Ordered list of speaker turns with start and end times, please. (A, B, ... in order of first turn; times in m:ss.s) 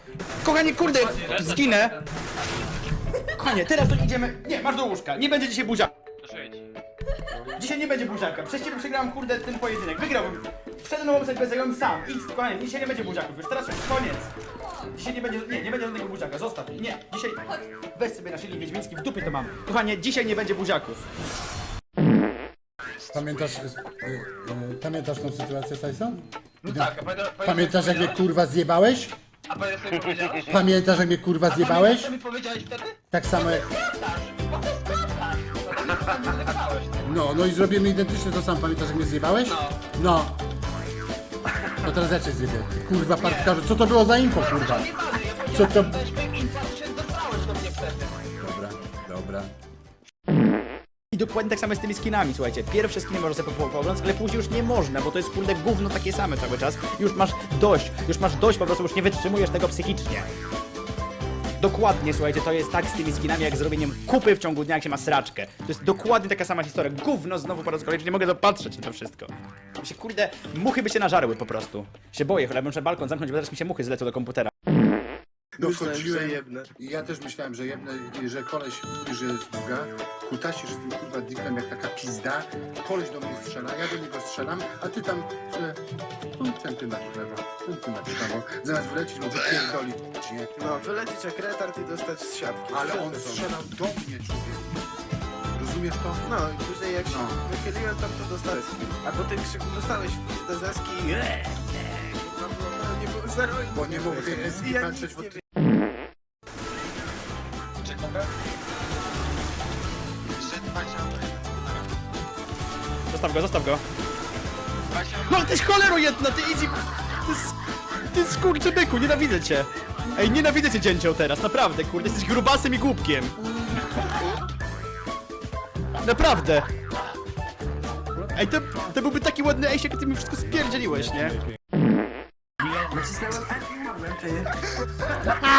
0:00.4-0:02.0 A
0:03.3-0:05.9 A
0:06.2-0:06.6 B
0:07.4-0:21.0 A
0:23.1-0:29.2 C
0:26.6-0:28.2 B
0:29.5-0:30.6 B
0:30.4-0:32.1 C
0:31.5-0:37.0 B
0:33.1-0:33.7 C
0:37.0-0:40.4 C
0:39.5-0:39.8 B
0:41.8-0:46.1 C
0:43.2-0:43.5 B
0:44.4-0:48.2 B
0:48.4-0:49.5 C
0:51.1-1:00.3 A
1:01.6-1:14.5 A
1:15.6-1:16.7 D
1:15.6-1:25.8 C
1:26.4-1:30.5 C
1:30.6-1:33.6 D
1:32.7-1:34.8 C
1:35.5-1:36.3 C
1:36.2-1:45.4 D
1:37.1-1:37.4 C
1:43.7-1:45.4 C
1:47.8-1:48.3 B
1:50.4-1:51.5 B
1:53.1-1:53.8 A
1:54.9-1:55.4 B
1:55.1-2:03.3 A
2:06.0-2:06.7 A
2:08.3-2:11.4 A
2:12.8-2:14.5 B
2:12.9-2:14.4 D